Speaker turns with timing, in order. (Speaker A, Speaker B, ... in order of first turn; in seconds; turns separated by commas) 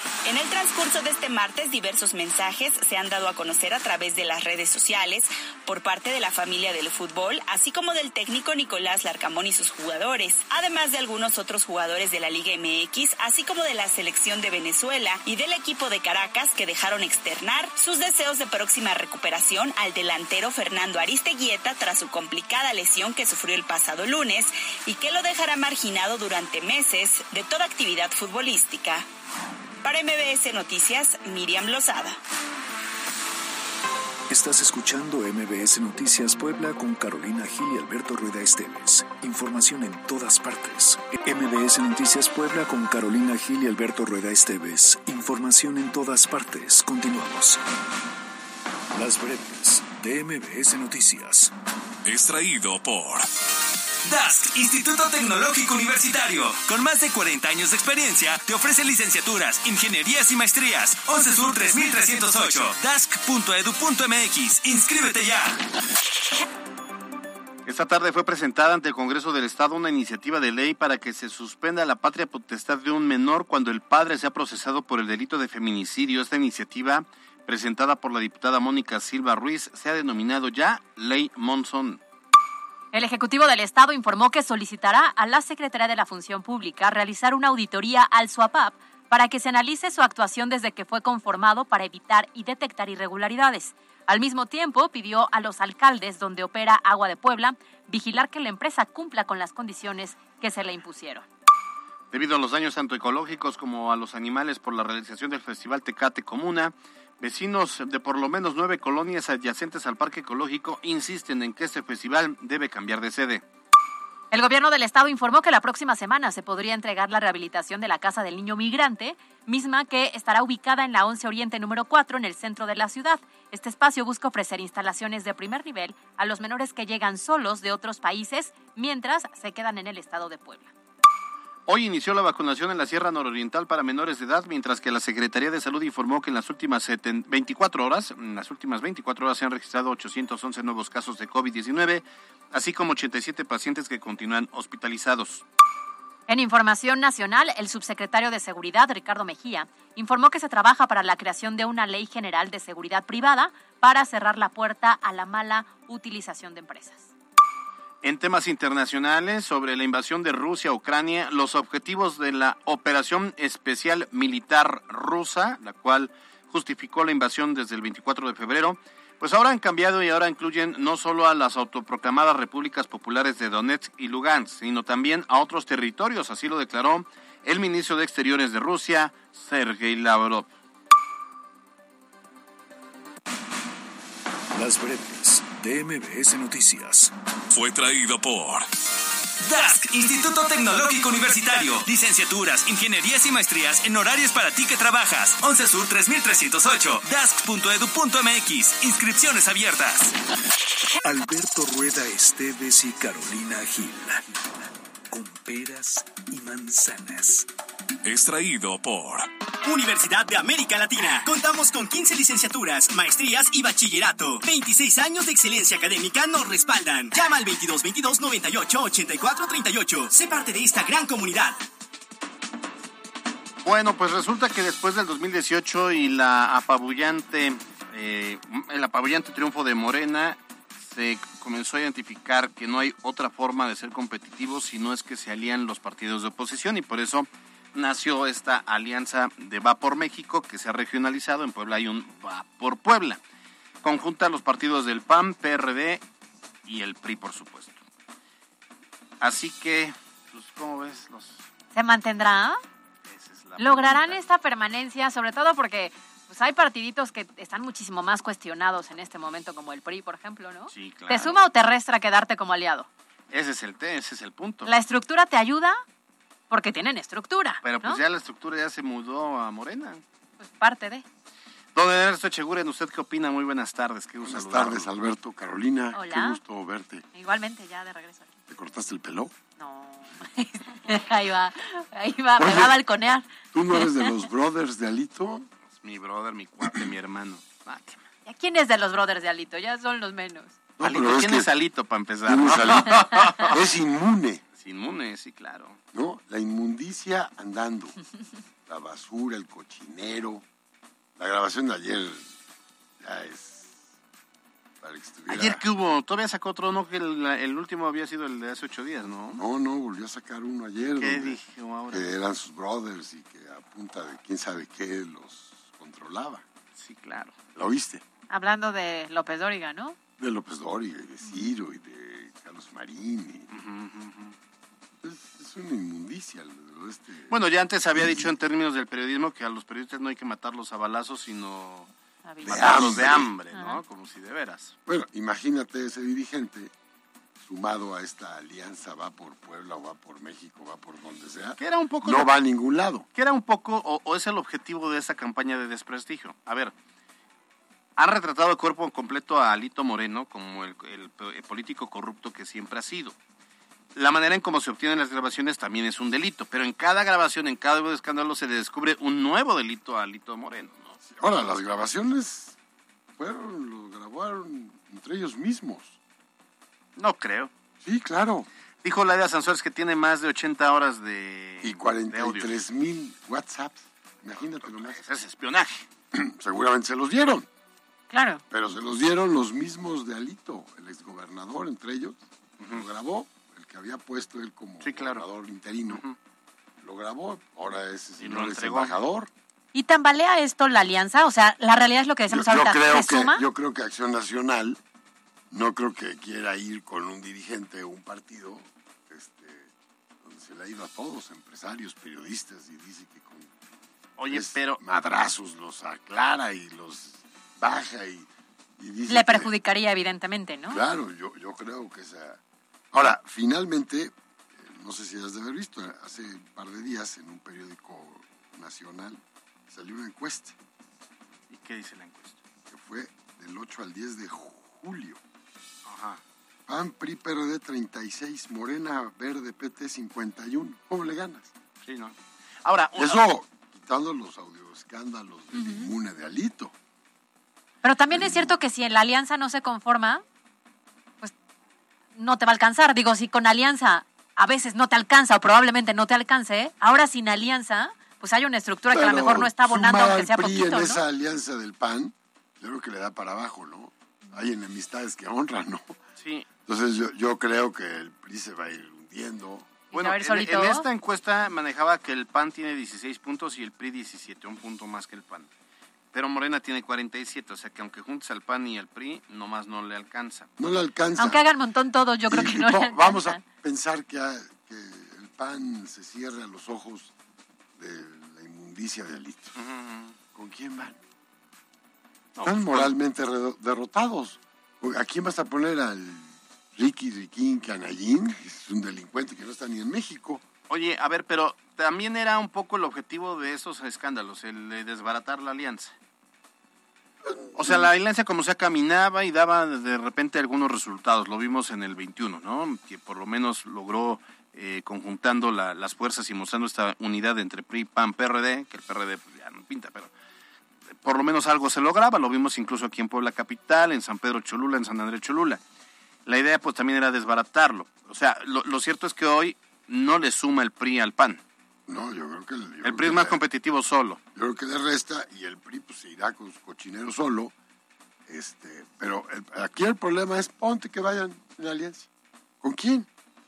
Speaker A: 0.2-29.1, Speaker A: 29.8-32.2, Speaker B: 34.3-47.6, Speaker B: 48.9-51.5, Speaker C: 52.4-53.2, Speaker C: 54.0-65.6, Speaker D: 67.7-82.0, Speaker E: 82.9-101.3, Speaker D: 102.1-113.4, Speaker E: 114.3-130.7, Speaker D: 131.7-145.4, Speaker E: 146.3-157.1, Speaker D: 158.0-180.5, Speaker B: 184.5-187.1, Speaker C: 189.4-200.1, Speaker B: 201.0-204.4, Speaker B: 205.1-207.5, Speaker F: 209.6-221.6, Speaker D: 223.6-243.2, Speaker D: 243.8-246.0, Speaker D: 246.7-247.8, Speaker D: 249.2-251.5, Speaker E: 251.8-252.6, Speaker D: 253.1-254.2, Speaker E: 253.6-262.9, Speaker D: 260.7-261.4, Speaker D: 263.3-264.7, Speaker E: 264.7-265.8, Speaker E: 266.5-268.0, Speaker D: 267.6-270.0, Speaker E: 270.4-271.1, Speaker D: 271.8-274.9, Speaker G: 274.2-277.1, Speaker E: 275.9-276.4, Speaker E: 277.1-278.3, Speaker G: 278.5-279.3, Speaker E: 279.6-284.1, Speaker G: 282.4-282.8, Speaker G: 283.5-285.5, Speaker D: 285.7-288.0, Speaker E: 288.3-290.5, Speaker G: 290.8-291.5, Speaker D: 290.8-293.6, Speaker G: 292.3-294.4, Speaker D: 294.5-295.8, Speaker G: 295.9-298.0, Speaker G: 298.7-300.4, Speaker G: 301.2-302.3, Speaker G: 303.0-303.9, Speaker G: 304.8-305.6, Speaker D: 305.3-309.4, Speaker G: 309.4-316.4, Speaker D: 311.0-312.1, Speaker D: 316.8-317.4, Speaker G: 317.5-318.0, Speaker E: 318.3-320.0, Speaker G: 320.2-323.5, Speaker D: 323.5-324.4, Speaker G: 325.0-327.4, Speaker D: 327.3-331.9, Speaker G: 327.9-328.3, Speaker E: 332.2-332.9, Speaker G: 332.4-333.3, Speaker D: 332.4-334.8, Speaker E: 333.5-333.8, Speaker G: 334.9-336.7, Speaker G: 337.4-343.1, Speaker D: 341.6-342.3, Speaker D: 343.1-346.7, Speaker D: 348.0-353.2, Speaker D: 354.0-361.0, Speaker G: 361.1-362.6, Speaker G: 363.2-366.0, Speaker D: 367.0-367.5, Speaker G: 367.8-368.5, Speaker D: 368.8-372.5, Speaker G: 371.6-375.0, Speaker D: 374.6-375.9, Speaker G: 376.1-377.5, Speaker E: 378.1-378.4, Speaker G: 378.5-386.0, Speaker D: 384.8-385.3, Speaker D: 385.9-386.1, Speaker G: 386.8-389.3, Speaker D: 388.2-388.9, Speaker E: 389.7-393.4, Speaker G: 392.3-394.8, Speaker G: 395.5-399.7, Speaker G: 400.2-403.5, Speaker D: 404.2-404.8, Speaker G: 404.3-409.5, Speaker E: 409.1-410.8, Speaker G: 410.7-412.4, Speaker G: 412.9-420.6, Speaker D: 421.5-422.4, Speaker G: 422.7-425.2, Speaker D: 425.9-426.2, Speaker G: 426.7-431.5, Speaker D: 431.8-433.2, Speaker G: 432.9-436.7, Speaker E: 435.5-435.9, Speaker E: 437.8-440.2, Speaker G: 438.1-438.6, Speaker E: 442.2-451.0, Speaker G: 448.9-456.0, Speaker D: 456.2-456.5, Speaker G: 456.6-459.9, Speaker E: 459.9-460.9, Speaker D: 459.9-465.5, Speaker D: 466.1-470.5, Speaker G: 470.6-471.4, Speaker E: 471.2-473.4, Speaker G: 472.3-477.1, Speaker G: 477.8-479.6, Speaker D: 479.6-480.1, Speaker G: 480.3-481.0, Speaker D: 482.4-482.9, Speaker G: 482.4-490.4, Speaker D: 490.7-495.9, Speaker G: 497.2-497.9, Speaker D: 497.6-510.1, Speaker D: 511.0-515.6, Speaker D: 516.3-521.4, Speaker G: 521.9-523.4, Speaker D: 522.8-524.2, Speaker G: 524.4-527.5, Speaker G: 528.3-532.1, Speaker G: 532.6-533.1